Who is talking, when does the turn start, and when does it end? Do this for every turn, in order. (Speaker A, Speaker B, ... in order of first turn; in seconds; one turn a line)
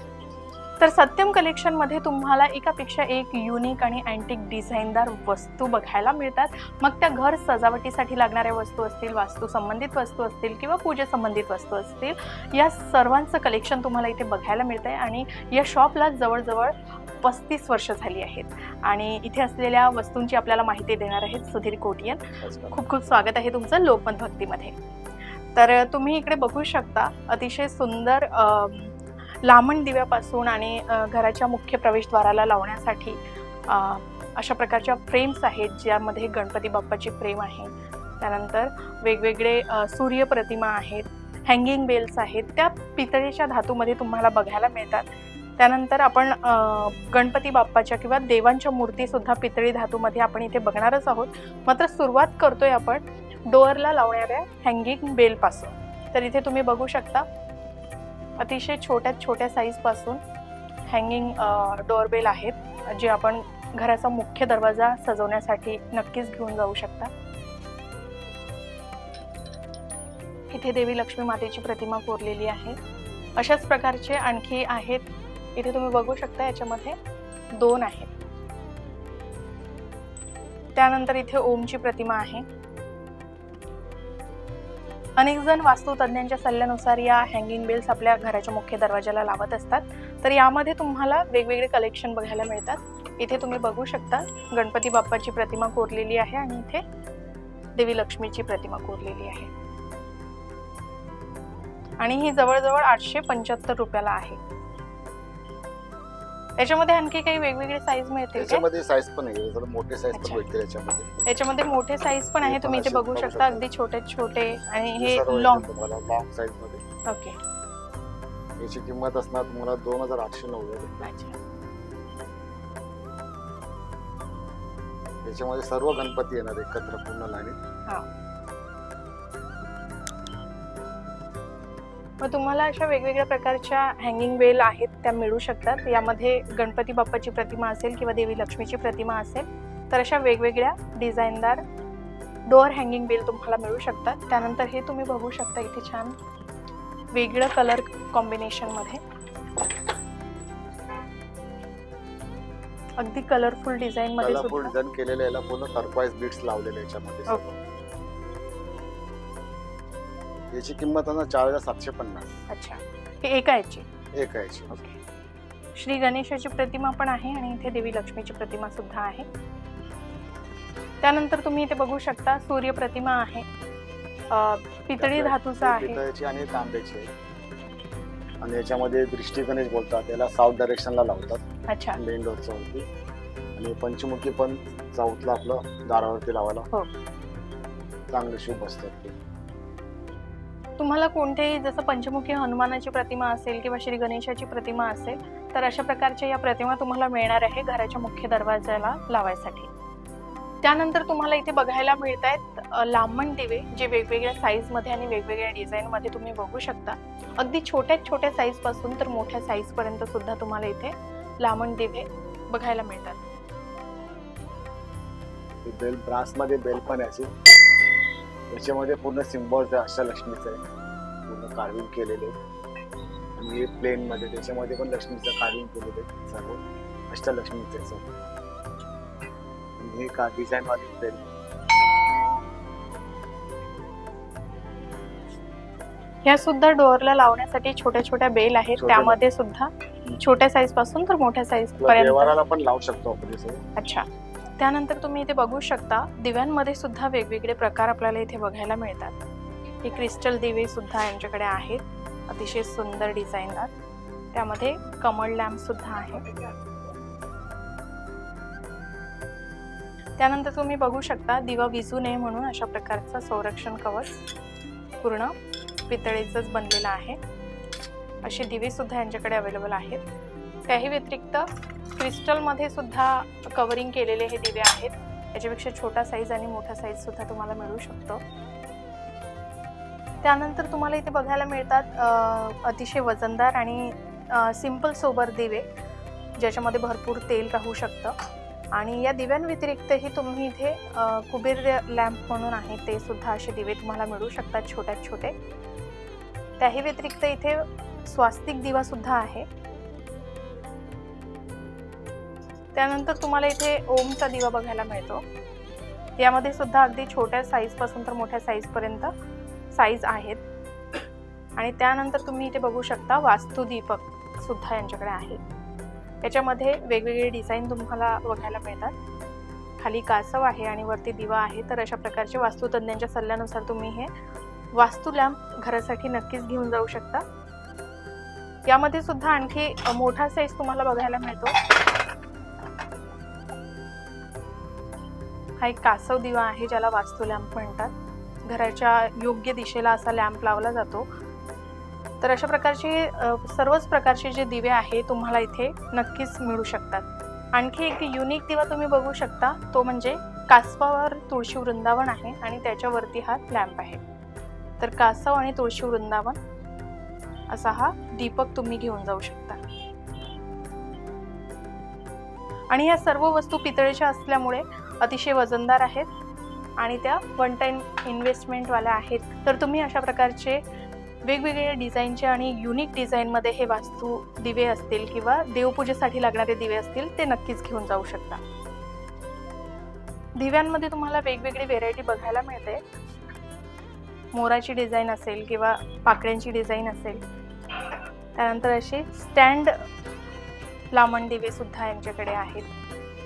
Speaker A: 0.8-24.8
Speaker B: 22.4-22.8
Speaker A: 25.6-33.2
Speaker A: 33.7-45.1
Speaker A: 45.6-57.3
Speaker A: 58.4-60.2
Speaker A: 60.9-67.1
Speaker A: 70.5-72.8
Speaker A: 73.4-77.0
Speaker A: 77.5-78.1
Speaker A: 80.8-82.5
Speaker A: 85.2-96.8
Speaker A: 97.8-99.5
Speaker A: 102.0-104.4
Speaker A: 106.6-108.6
Speaker B: 108.4-111.1
Speaker A: 110.1-110.4
Speaker A: 111.3-115.7
Speaker B: 112.4-113.7
Speaker B: 115.0-116.8
Speaker A: 117.1-117.4
Speaker B: 118.6-121.0
Speaker A: 121.0-121.4
Speaker B: 125.2-127.6
Speaker A: 132.2-141.6
Speaker A: 142.5-146.2
Speaker A: 147.1-149.0
Speaker A: 153.0-154.7
Speaker B: 154.2-157.5
Speaker B: 160.5-162.3
Speaker A: 162.5-163.9
Speaker B: 164.2-164.8
Speaker A: 164.7-165.0
Speaker A: 165.8-169.3
Speaker A: 171.0-173.5
Speaker A: 174.3-176.0
Speaker B: 175.0-177.1
Speaker B: 178.4-181.5
Speaker A: 181.7-182.0
Speaker B: 182.0-182.9
Speaker B: 183.6-186.7
Speaker B: 188.1-189.2
Speaker A: 190.8-199.7
Speaker A: 200.6-213.2
Speaker B: 215.6-217.3
Speaker B: 218.5-220.6
Speaker B: 221.3-222.3
Speaker B: 223.4-228.1
Speaker B: 229.8-231.3
Speaker A: 236.2-242.3
Speaker B: 238.8-239.2
Speaker B: 241.8-243.6
Speaker A: 243.8-244.1
Speaker A: 244.6-249.2
Speaker A: 249.8-253.7
Speaker A: 254.3-256.2
Speaker A: 260.2-264.2
Speaker A: 265.0-265.3
Speaker A: 265.9-267.2
Speaker A: 268.2-270.0
Speaker A: 270.7-278.2
Speaker A: 280.2-285.6
Speaker A: 286.4-288.1
Speaker A: 288.7-295.3
Speaker A: 296.6-299.5
Speaker A: 302.8-305.2
Speaker A: 306.2-309.1
Speaker A: 309.7-310.4
Speaker A: 311.6-315.4
Speaker A: 316.2-318.9
Speaker A: 319.8-324.1
Speaker A: 324.8-327.2
Speaker A: 328.7-331.8
Speaker A: 335.6-337.9
Speaker A: 338.5-341.1
Speaker A: 342.2-354.0
Speaker A: 354.8-356.4
Speaker A: 357.5-359.6
Speaker A: 362.7-366.1
Speaker A: 366.8-370.6
Speaker A: 371.3-378.4
Speaker A: 380.4-382.8
Speaker A: 384.3-387.2
Speaker A: 388.4-389.7
Speaker A: 390.9-392.7